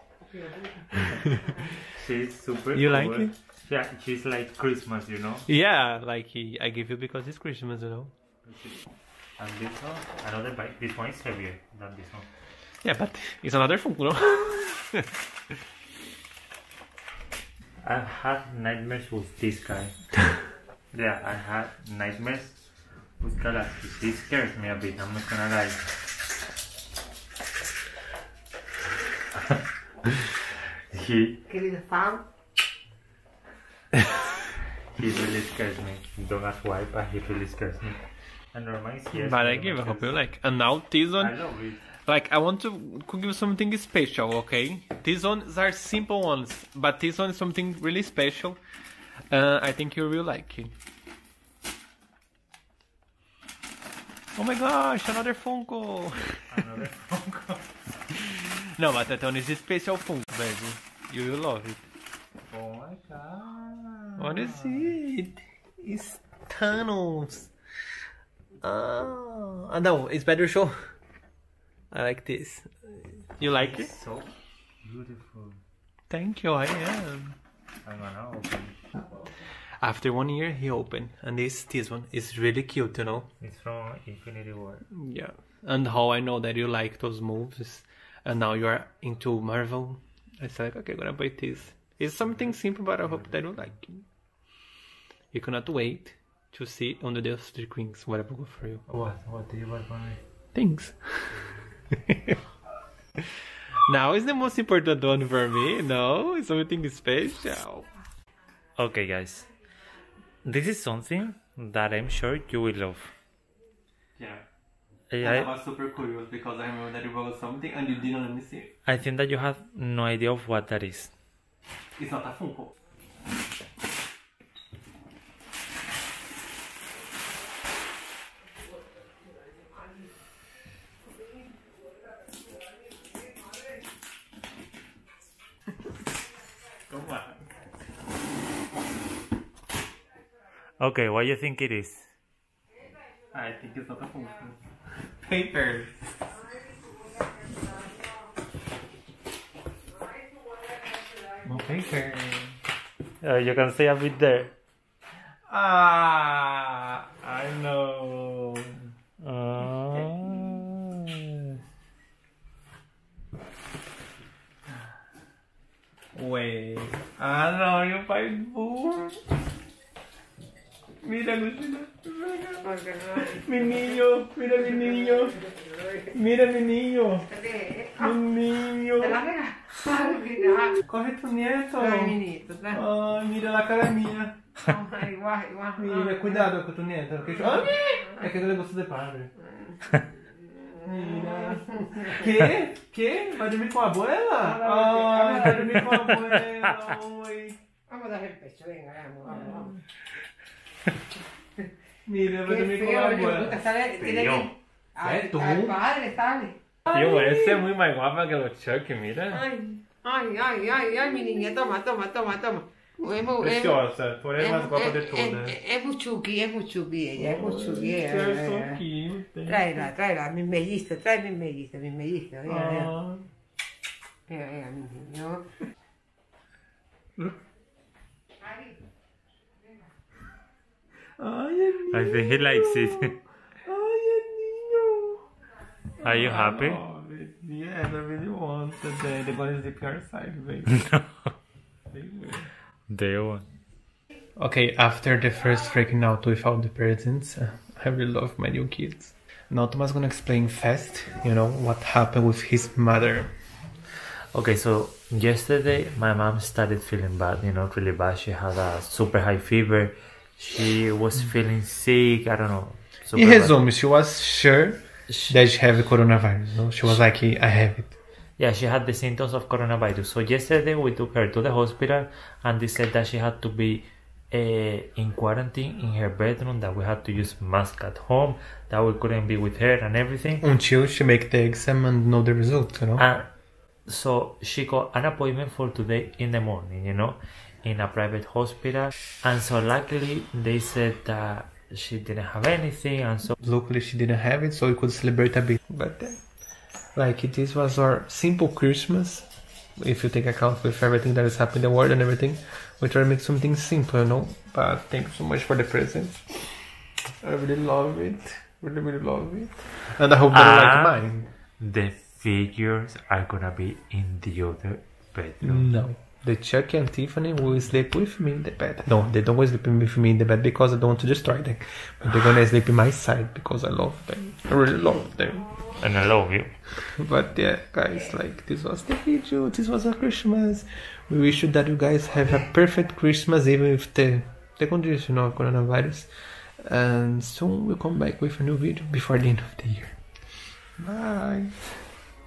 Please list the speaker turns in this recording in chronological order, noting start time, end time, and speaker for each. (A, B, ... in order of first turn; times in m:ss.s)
0:00.3-0:01.0 A
0:00.9-0:01.4 B
0:01.8-0:05.4 C
0:02.7-0:03.3 B
0:05.5-0:08.1 B
0:08.4-0:12.3 C
0:12.8-0:15.6 B
0:17.8-0:20.1 C
0:20.9-0:22.6 C
0:23.2-0:25.8 C
0:29.3-0:31.4 C
0:31.5-0:32.2 A
0:34.9-0:38.0 C
0:38.5-0:40.2 C
0:39.1-0:41.4 B
0:41.2-0:41.9 C
0:42.0-0:48.6 B
0:49.3-0:50.7 B
0:54.3-0:56.6 B
0:56.5-0:57.8 C
0:58.1-1:01.8 B
1:02.5-1:04.9 C
1:04.2-1:07.5 B
1:08.6-1:10.9 B
1:11.9-1:13.9 B
1:13.5-1:15.6 C
1:16.1-1:17.4 B
1:17.8-1:18.7 C
1:19.8-1:23.3 B
1:23.4-1:24.8 C
1:24.9-1:34.0 B
1:35.3-1:38.8 B
1:38.9-1:40.2 C
1:40.5-1:42.4 B
1:43.9-1:47.9 B
1:48.8-1:49.5 C
1:50.4-1:53.1 C
1:54.2-1:54.4 B
1:55.1-1:55.5 C
1:55.2-1:58.7 B
1:58.8-2:01.1 C
2:02.0-2:02.7 B
2:16.9-2:17.4 B
2:20.8-2:22.1 C
2:23.3-2:24.6 B
2:25.2-2:26.2 B
2:31.4-2:32.6 B
2:33.2-2:34.5 C
2:35.5-2:38.8 B
2:39.2-2:41.4 C
2:46.1-2:49.2 B
2:51.0-2:57.3 B
2:52.6-2:53.8 A
2:55.1-2:56.1 A
2:57.3-2:58.2 A
2:58.0-2:59.2 B
2:59.0-3:00.8 A
3:00.7-3:04.4 B
3:01.8-3:02.8 A
3:04.6-3:06.5 A
3:05.8-3:09.3 B
3:10.8-3:17.6 B
3:11.6-3:12.0 A
3:14.4-3:15.9 A
3:15.7-3:16.9 C
3:17.9-3:19.7 A
3:19.3-3:19.8 B
3:22.0-3:23.6 B
3:22.4-3:26.6 A
3:24.0-3:24.5 C
3:25.0-3:25.8 B
3:26.8-3:29.4 B
3:29.3-3:33.8 A
3:33.0-3:35.6 B
3:34.4-3:38.8 A
3:37.1-3:39.9 B
3:39.4-3:42.9 A
3:42.4-3:43.3 B
3:44.3-3:45.4 A
3:51.2-3:55.2 B
3:51.9-3:53.1 C
3:56.0-4:00.9 B
3:56.0-3:56.8 C
4:00.7-4:01.3 C
4:01.9-4:02.5 B
4:02.9-4:03.4 C
4:04.4-4:13.3 B
4:14.3-4:23.6 C
4:23.1-4:27.9 B
4:25.1-4:25.4 C
4:28.4-4:40.4 C
4:40.4-4:43.0 B
4:43.0-4:43.3 C
4:43.9-4:53.4 C
4:53.4-4:56.3 B
4:56.9-5:06.6 B
5:07.2-5:11.3 B
5:10.3-5:15.8 C
5:15.4-5:25.5 B
5:25.8-5:26.6 C
5:26.8-5:40.0 B
5:40.8-5:41.8 B